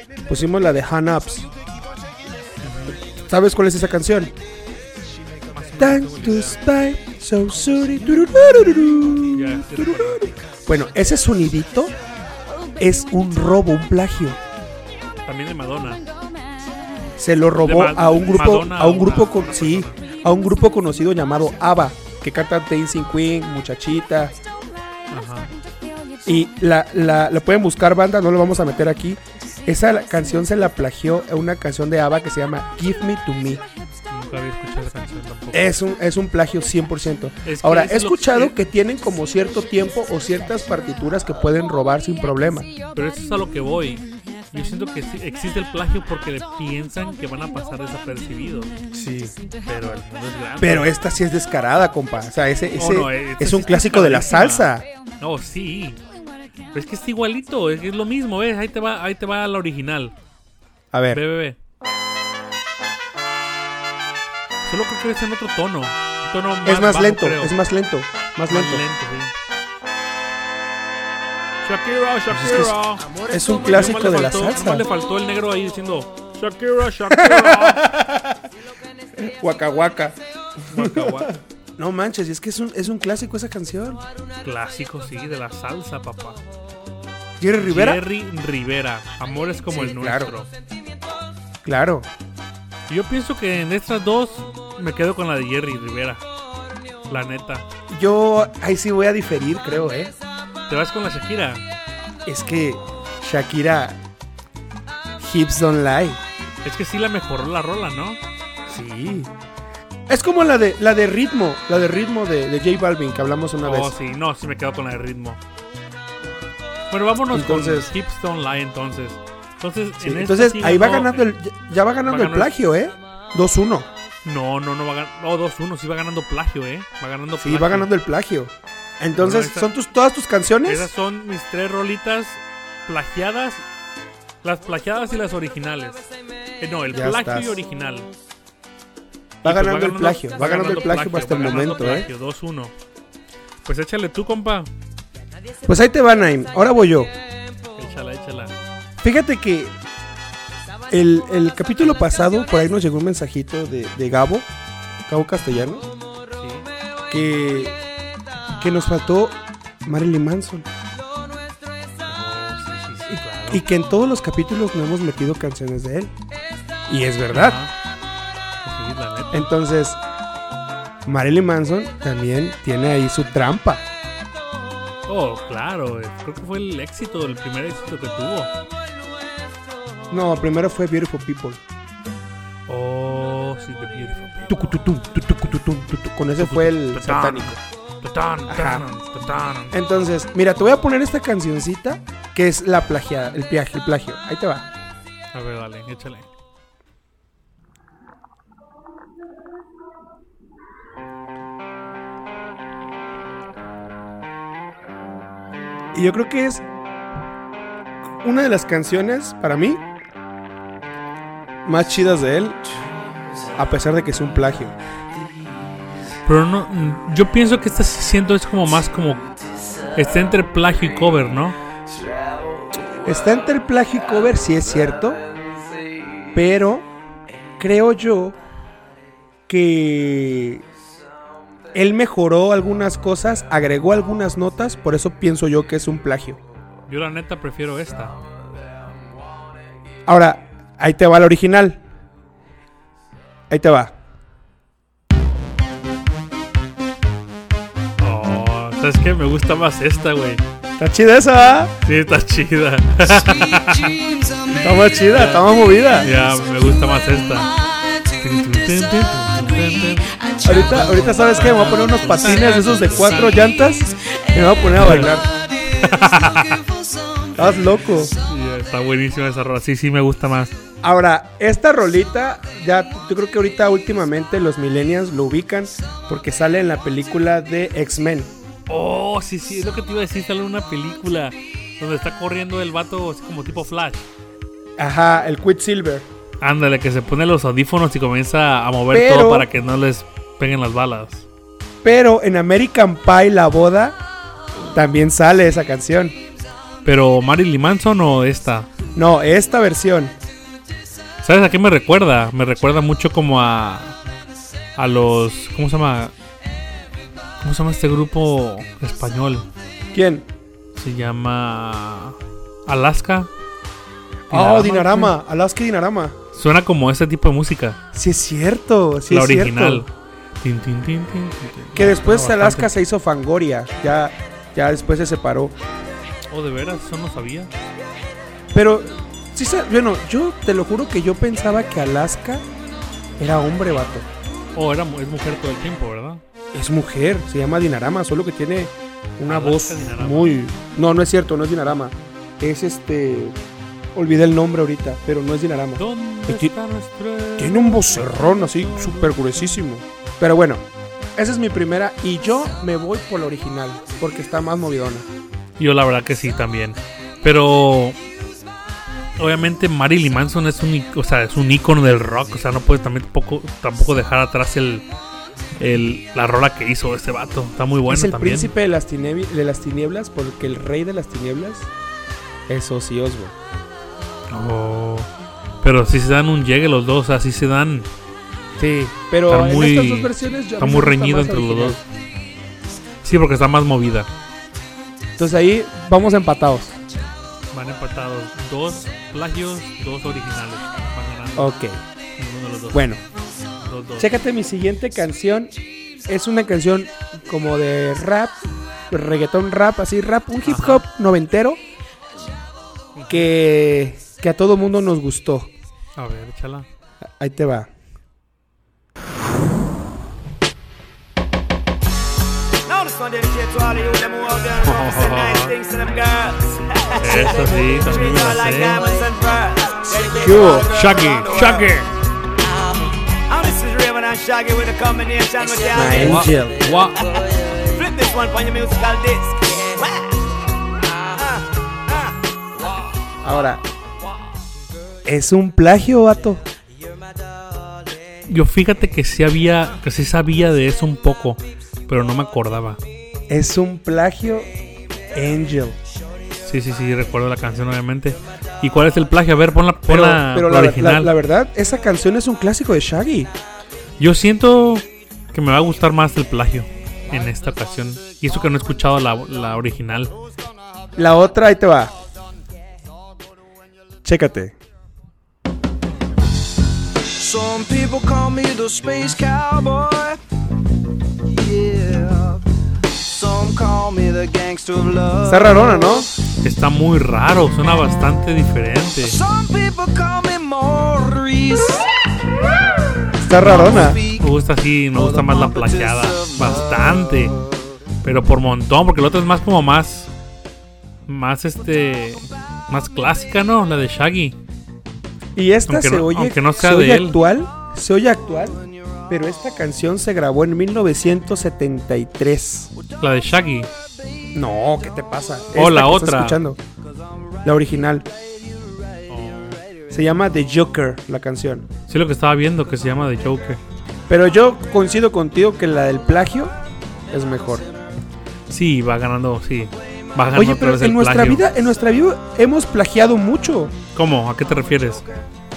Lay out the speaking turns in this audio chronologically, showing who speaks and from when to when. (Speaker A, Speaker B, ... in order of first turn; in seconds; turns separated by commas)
Speaker A: 0.3-1.5, Speaker B: 2.6-3.0, Speaker A: 3.2-4.3, Speaker B: 5.5-6.6, Speaker A: 5.8-11.9, Speaker B: 9.3-10.3, Speaker A: 12.8-14.4, Speaker B: 15.2-16.0, Speaker A: 17.2-24.4, Speaker B: 17.6-20.0, Speaker B: 25.1-25.5, Speaker A: 26.2-33.6, Speaker B: 34.1-35.7, Speaker A: 35.5-42.7, Speaker B: 37.4-38.5, Speaker B: 42.9-48.7, Speaker A: 48.9-49.3, Speaker B: 49.6-50.9, Speaker A: 50.6-54.8, Speaker B: 52.7-56.0, Speaker B: 56.7-60.1, Speaker A: 60.9-61.2, Speaker B: 61.1-61.6, Speaker B: 64.6-67.5, Speaker A: 66.6-68.8, Speaker B: 68.5-69.3, Speaker B: 71.6-77.8, Speaker A: 72.3-74.8, Speaker A: 77.1-78.5, Speaker A: 79.2-80.2, Speaker B: 80.7-81.3, Speaker A: 80.7-84.0, Speaker B: 84.4-86.4, Speaker A: 87.4-88.0, Speaker B: 87.6-90.5, Speaker A: 89.7-90.3, Speaker A: 91.6-92.1, Speaker B: 92.9-96.2, Speaker B: 97.1-97.7, Speaker A: 97.9-100.1, Speaker B: 100.7-101.6, Speaker A: 102.2-104.0, Speaker A: 105.2-106.2, Speaker B: 106.6-108.2, Speaker A: 108.7-109.3, Speaker A: 110.1-113.9, Speaker B: 113.6-115.4, Speaker B: 116.9-121.2, Speaker A: 117.3-117.9, Speaker A: 120.0-123.9, Speaker B: 122.0-122.5, Speaker B: 124.2-127.9, Speaker A: 127.4-130.9, Speaker B: 129.2-129.7, Speaker B: 130.7-133.6, Speaker B: 134.4-136.0, Speaker B: 136.6-138.1, Speaker A: 136.9-137.6, Speaker A: 139.4-142.1, Speaker B: 139.4-142.7, Speaker B: 143.6-144.7, Speaker A: 145.6-147.1, Speaker B: 147.8-148.5, Speaker A: 149.0-149.8, Speaker A: 150.9-154.5, Speaker A: 155.1-155.9, Speaker B: 156.4-156.7, Speaker A: 157.1-157.8, Speaker A: 158.6-160.7, Speaker B: 162.1-163.6, Speaker A: 163.5-166.1, Speaker A: 166.9-167.6, Speaker B: 167.3-167.7, Speaker B: 168.6-169.5, Speaker A: 169.3-170.0, Speaker A: 171.0-173.8, Speaker B: 175.1-178.5, Speaker A: 180.1-181.6, Speaker B: 182.7-184.5, Speaker A: 184.5-187.6, Speaker B: 186.4-189.9, Speaker A: 188.5-188.9, Speaker A: 189.7-194.7, Speaker B: 195.3-196.3, Speaker A: 205.9-206.6, Speaker A: 208.2-209.8, Speaker A: 211.6-212.6, Speaker A: 213.6-214.8, Speaker C: 215.3-215.8, Speaker B: 216.2-219.2, Speaker B: 219.9-221.6, Speaker C: 221.8-223.3, Speaker A: 223.0-225.2, Speaker C: 225.1-226.3, Speaker A: 226.3-226.9, Speaker A: 227.6-228.4, Speaker A: 229.5-230.6, Speaker A: 231.7-236.4, Speaker B: 236.9-238.1, Speaker A: 240.0-241.8, Speaker A: 243.5-243.9, Speaker B: 248.0-250.4, Speaker A: 250.8-251.8, Speaker B: 251.8-254.0, Speaker B: 254.5-257.5, Speaker A: 254.6-256.1, Speaker B: 258.1-263.4, Speaker A: 260.4-265.4, Speaker B: 264.8-265.1, Speaker B: 265.6-266.6, Speaker A: 267.3-268.1, Speaker B: 268.1-270.6, Speaker A: 270.8-278.3, Speaker B: 278.7-284.1, Speaker A: 284.8-286.1, Speaker B: 286.4-291.3, Speaker A: 288.9-289.5, Speaker A: 291.8-294.0, Speaker A: 294.7-296.2, Speaker B: 296.8-298.7, Speaker A: 298.9-300.1, Speaker B: 301.2-304.0, Speaker B: 304.8-306.1, Speaker B: 307.4-309.5, Speaker A: 309.9-310.2, Speaker B: 310.7-313.3, Speaker B: 314.3-315.1, Speaker A: 314.3-316.2, Speaker B: 316.3-317.8, Speaker A: 317.9-319.9, Speaker B: 319.1-319.9, Speaker B: 320.4-322.7, Speaker A: 321.7-325.5, Speaker B: 326.3-327.5, Speaker A: 328.5-332.4, Speaker A: 333.2-334.1, Speaker B: 334.5-336.2, Speaker A: 336.5-343.4, Speaker B: 339.2-340.4, Speaker A: 343.9-346.5, Speaker B: 345.8-349.6, Speaker A: 347.4-350.6, Speaker A: 351.1-355.1, Speaker B: 355.6-358.0, Speaker B: 359.2-364.9, Speaker B: 365.6-368.5, Speaker A: 367.9-371.7, Speaker A: 372.5-373.3, Speaker B: 374.3-375.1, Speaker B: 375.6-377.9, Speaker A: 378.6-381.8, Speaker B: 379.3-381.8, Speaker B: 383.0-384.1, Speaker A: 385.2-386.8, Speaker B: 387.5-391.5, Speaker A: 391.4-391.8, Speaker B: 392.2-392.9, Speaker A: 392.7-393.0, Speaker B: 393.6-394.1, Speaker A: 394.0-395.5, Speaker A: 396.1-398.4, Speaker A: 398.9-401.6, Speaker B: 400.4-400.8, Speaker B: 402.9-403.3, Speaker A: 403.1-405.5, Speaker B: 405.9-406.7, Speaker A: 407.2-407.7, Speaker C: 412.6-421.8, Speaker B: 414.6-415.5, Speaker B: 416.9-418.8, Speaker A: 420.1-420.8, Speaker B: 420.6-421.9, Speaker C: 422.4-422.8, Speaker C: 423.3-430.2, Speaker A: 425.7-426.6, Speaker B: 425.9-427.1, Speaker C: 430.8-432.9, Speaker A: 433.2-433.6, Speaker A: 435.0-436.4, Speaker B: 438.3-442.8, Speaker A: 443.3-444.5, Speaker A: 445.1-445.8, Speaker B: 446.4-451.1, Speaker A: 449.9-453.3, Speaker B: 454.0-460.1, Speaker A: 460.9-461.9, Speaker A: 464.0-464.5, Speaker C: 467.0-470.2, Speaker C: 471.2-476.1, Speaker A: 475.2-476.1, Speaker B: 476.4-479.2, Speaker C: 479.1-481.9, Speaker A: 483.2-484.0, Speaker B: 483.4-487.3, Speaker C: 483.4-484.3, Speaker C: 484.9-486.8, Speaker B: 488.0-490.1, Speaker B: 491.1-494.4, Speaker A: 495.3-502.7, Speaker B: 495.7-497.2, Speaker B: 503.0-503.7, Speaker A: 504.3-506.6, Speaker B: 505.5-506.4, Speaker A: 507.4-508.1, Speaker B: 509.1-509.6, Speaker A: 509.9-511.7, Speaker B: 511.9-513.6, Speaker A: 514.1-516.5, Speaker A: 517.1-517.6, Speaker B: 518.5-521.5, Speaker A: 520.3-523.8, Speaker B: 523.9-525.0